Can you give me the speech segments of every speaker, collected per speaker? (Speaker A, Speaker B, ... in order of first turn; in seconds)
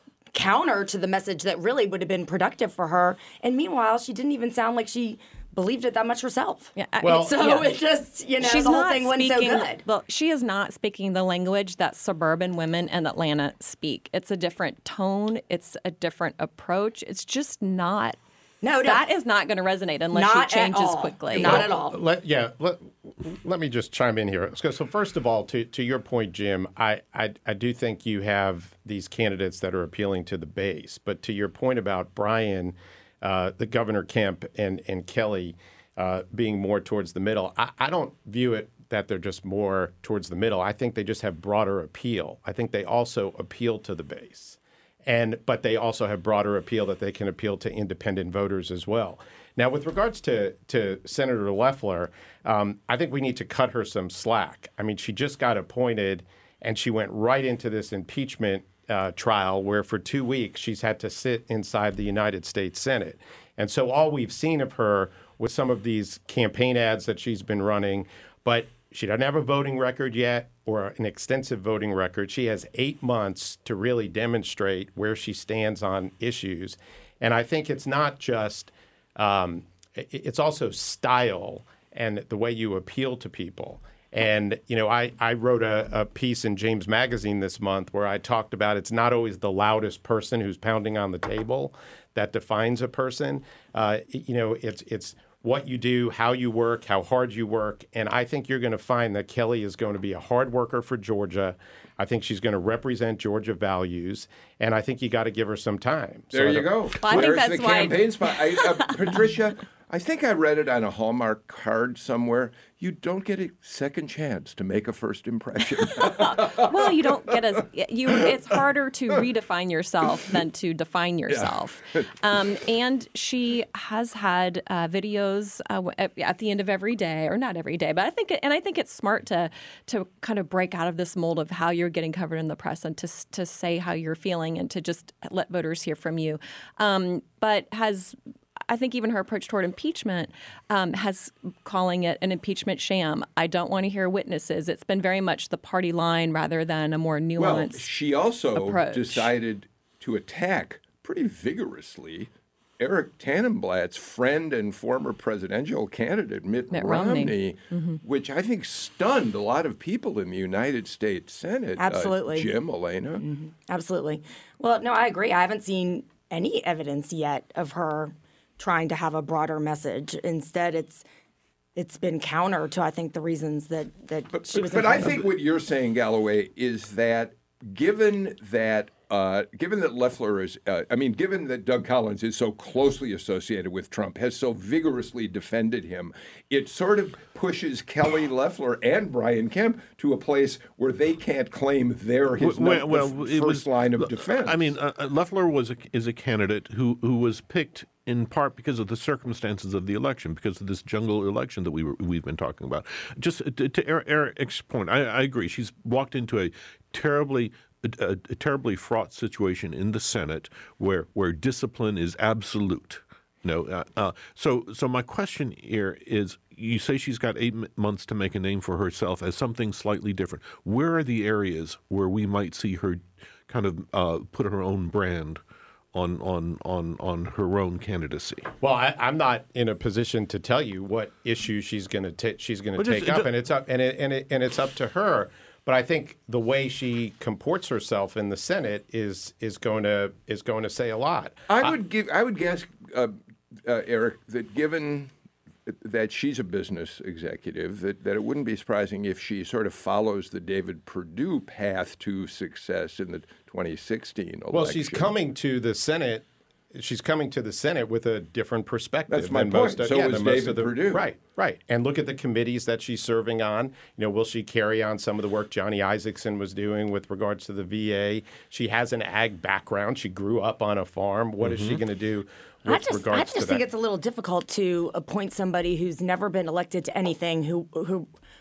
Speaker A: 0.3-9.8, 18.6-19.0, 20.1-22.0, 161.8-162.5, 163.2-171.0, 171.8-175.3, 272.7-278.1
Speaker B: 6.7-7.7, 8.4-18.2, 18.8-21.6, 107.0-109.1, 116.0-138.2, 138.7-147.9, 148.5-149.3, 156.7-158.0
Speaker C: 7.0-7.3, 21.3-106.7, 228.6-241.7, 254.5-273.6
Speaker D: 106.3-116.9, 121.3-122.0, 147.4-163.2, 174.3-194.6, 241.5-245.1, 245.7-255.1, 259.1-261.0
Speaker E: 192.4-225.4, 225.9-228.5, 232.8-233.3, 271.4-271.8